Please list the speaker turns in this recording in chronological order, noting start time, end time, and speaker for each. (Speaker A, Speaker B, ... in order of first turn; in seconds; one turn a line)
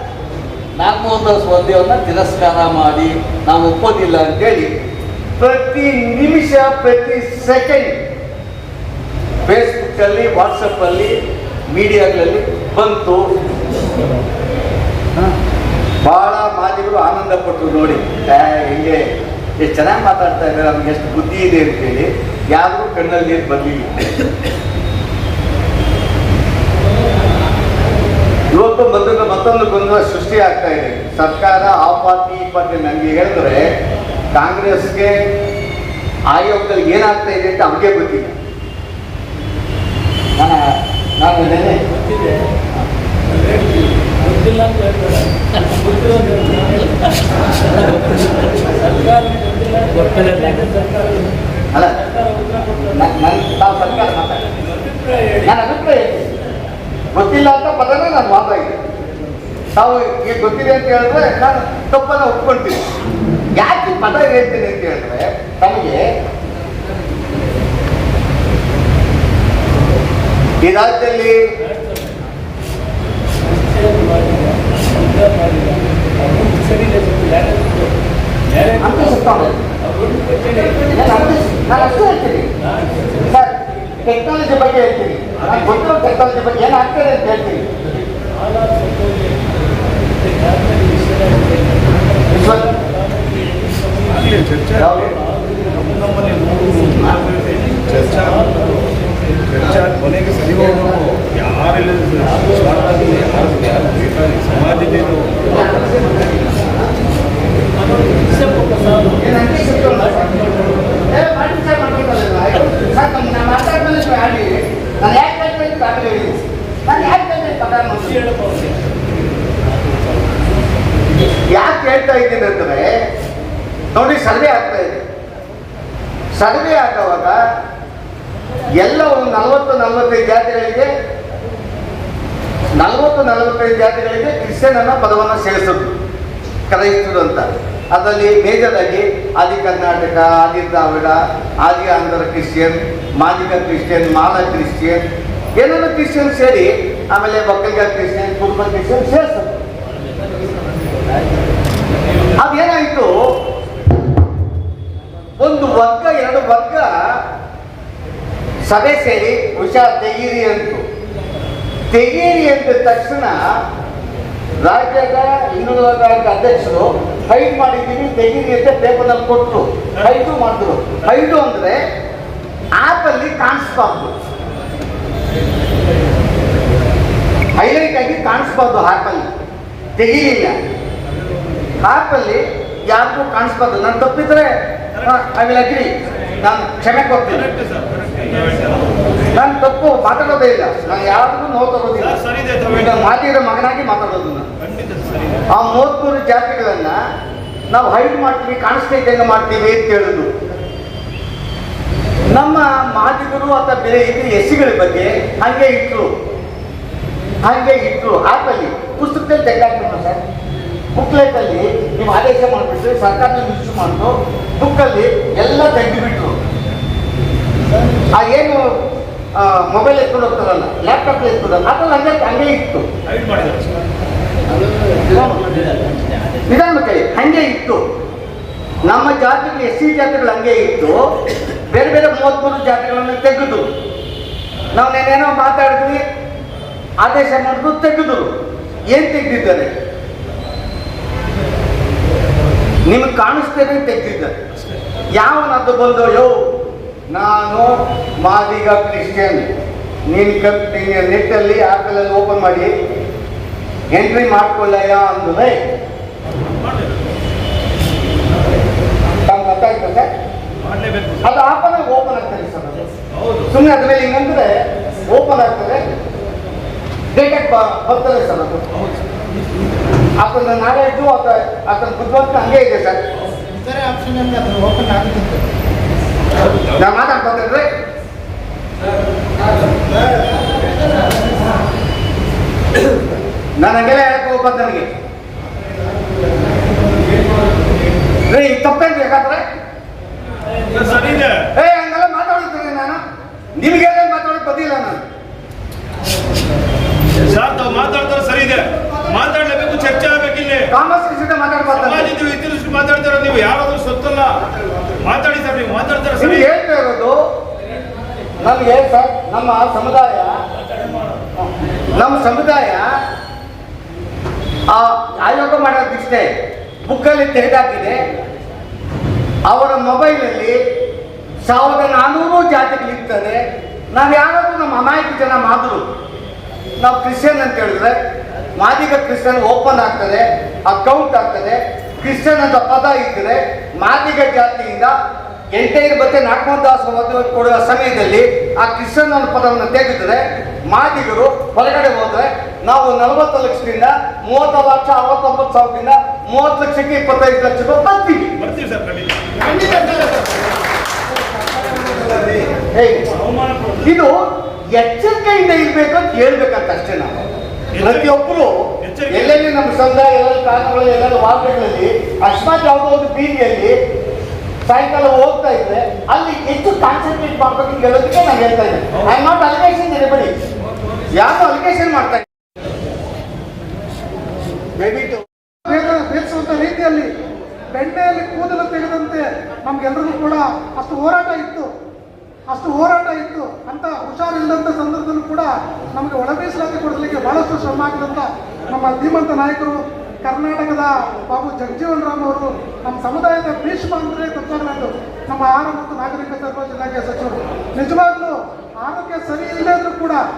Speaker A: 0.8-4.7
Speaker A: 5.4-8.0
Speaker A: 9.4-11.2
Speaker A: 11.7-13.2
Speaker A: 16.0-19.1
Speaker A: 19.6-24.0
Speaker A: 28.5-33.7
Speaker A: 34.3-35.2
Speaker A: 36.3-38.3
Speaker A: 40.4-41.8
Speaker B: 42.1-42.4
Speaker B: 44.2-47.0
Speaker B: 47.8-51.3
Speaker A: 51.7-52.0
Speaker B: 52.1-52.9
Speaker A: 52.9-54.4
Speaker B: 54.6-55.4
Speaker A: 55.4-56.3
Speaker A: 57.1-58.8
Speaker A: 59.8-62.8
Speaker A: 63.5-66.0
Speaker A: 70.6-71.4
Speaker B: 73.7-74.5
Speaker B: 75.2-77.9
Speaker A: 78.7-79.5
Speaker B: 80.0-80.6
Speaker A: 80.7-82.5
Speaker A: 83.1-87.7
Speaker B: 90.6-91.5
Speaker A: 92.3-92.8
Speaker C: 94.2-94.7
Speaker A: 94.8-95.2
Speaker C: 95.7-98.8
Speaker C: 99.5-100.7
Speaker A: 100.6-101.0
Speaker C: 101.3-105.3
Speaker A: 105.4-106.8
Speaker B: 108.4-108.8
Speaker A: 109.2-118.3
Speaker A: 121.5-122.9
Speaker A: 123.9-125.0
Speaker A: 126.3-127.4
Speaker A: 128.8-130.9
Speaker A: 132.8-135.9
Speaker A: 136.7-145.0
Speaker A: 145.6-149.6
Speaker A: 152.4-153.1
Speaker A: 155.4-156.9
Speaker A: 158.7-160.8
Speaker A: 161.9-163.4
Speaker A: 164.6-171.8
Speaker A: 172.8-174.1
Speaker A: 177.5-179.3
Speaker A: 179.9-180.5
Speaker A: 181.8-187.5
Speaker C: 188.1-188.7
Speaker A: 189.3-194.5
Speaker A: 195.5-197.0
Speaker A: 197.7-200.3
Speaker A: 202.3-206.1
Speaker A: 207.4-210.2
Speaker A: 210.9-216.3
Speaker A: 218.1-218.7
Speaker A: 219.3-222.8
Speaker C: 223.2-223.7
Speaker A: 225.1-225.5
Speaker A: 226.5-227.8
Speaker A: 228.8-231.0
Speaker A: 231.7-233.7
Speaker A: 234.7-236.0
Speaker A: 237.0-238.3
Speaker A: 238.9-239.7
Speaker A: 242.9-244.3
Speaker A: 245.1-246.3
Speaker A: 247.1-249.5
Speaker A: 250.1-252.7
Speaker A: 253.9-255.6
Speaker A: 259.2-260.1
Speaker C: 260.7-261.2
Speaker A: 261.2-262.9
Speaker A: 263.5-264.6
Speaker A: 265.1-265.8
Speaker A: 267.1-268.7
Speaker A: 270.2-273.0
Speaker D: 273.5-275.5
Speaker A: 276.8-277.7
Speaker A: 283.6-284.9
Speaker A: 288.3-289.4
Speaker C: 290.7-291.4
Speaker A: 291.5-293.0
Speaker A: 293.5-295.0
Speaker C: 297.2-300.7
Speaker A: 300.7-302.1
Speaker C: 302.0-304.4
Speaker C: 305.0-306.3
Speaker A: 306.2-307.2
Speaker A: 308.4-310.3
Speaker A: 311.4-312.9
Speaker A: 314.7-316.3
Speaker A: 316.8-318.0
Speaker A: 319.5-320.6
Speaker A: 321.4-325.9
Speaker A: 326.8-328.0
Speaker A: 328.6-334.9
Speaker A: 335.5-348.4
Speaker C: 348.5-349.9
Speaker E: 351.6-352.4
Speaker A: 352.7-353.1
Speaker C: 353.3-353.7
Speaker A: 353.8-363.7
Speaker A: 364.6-370.3
Speaker A: 371.1-372.3
Speaker A: 374.8-375.2
Speaker E: 375.6-377.1
Speaker E: 377.7-381.7
Speaker E: 382.5-400.2